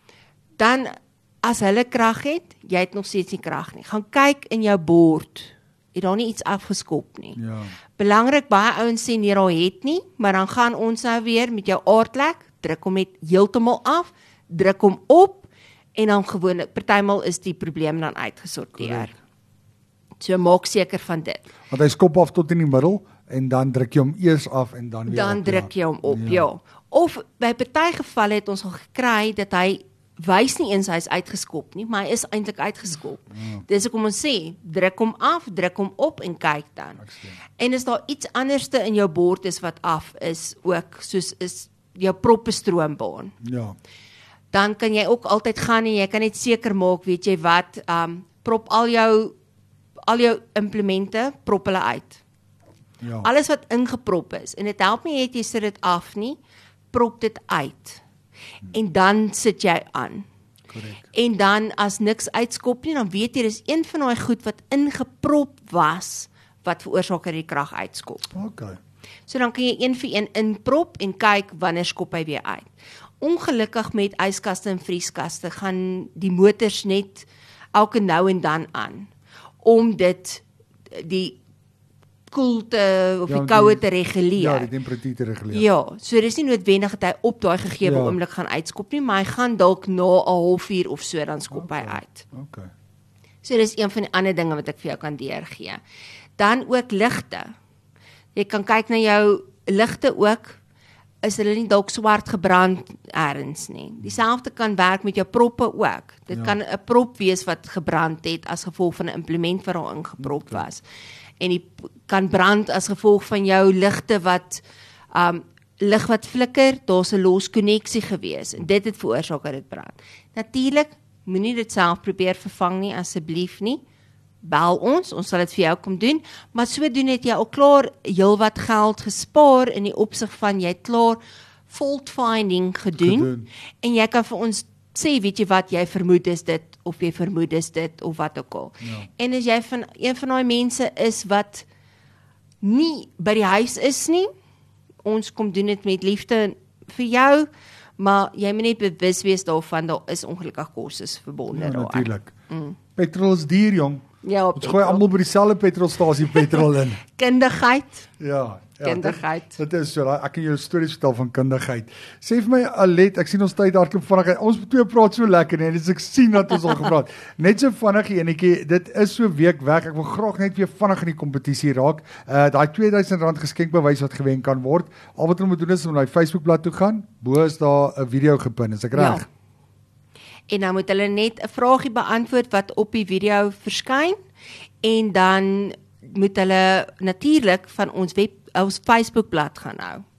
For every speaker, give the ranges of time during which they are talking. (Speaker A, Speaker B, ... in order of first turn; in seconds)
Speaker A: 0.6-7.4, 8.0-19.1, 20.2-21.5, 25.1-37.0, 37.6-43.3, 44.5-49.3, 50.1-52.2, 53.2-56.4, 56.9-58.0, 58.7-60.2, 61.1-68.3, 69.3-72.7, 73.2-79.1, 79.6-81.4, 82.3-84.7, 85.5-92.2, 93.4-95.8, 96.4-97.5, 98.3-100.6, 101.2-110.8, 111.4-123.8, 124.4-133.3, 133.8-141.7, 142.6-144.3, 145.0-152.8, 154.2-155.0, 156.5-158.1, 158.8-159.6, 178.9-179.2, 180.5-184.2, 184.8-190.0
Speaker B: 7.3-7.7, 18.7-19.1, 21.7-26.5, 33.3-33.6, 37.0-37.4, 43.4-43.8, 53.0-53.3, 60.7-61.1, 68.3-68.8, 83.3-83.8, 84.3-85.7, 87.8-88.2, 91.5-92.7, 110.2-110.6, 133.0-133.5, 138.8-139.1, 151.5-152.3, 152.9-154.0, 154.6-157.0, 158.2-179.2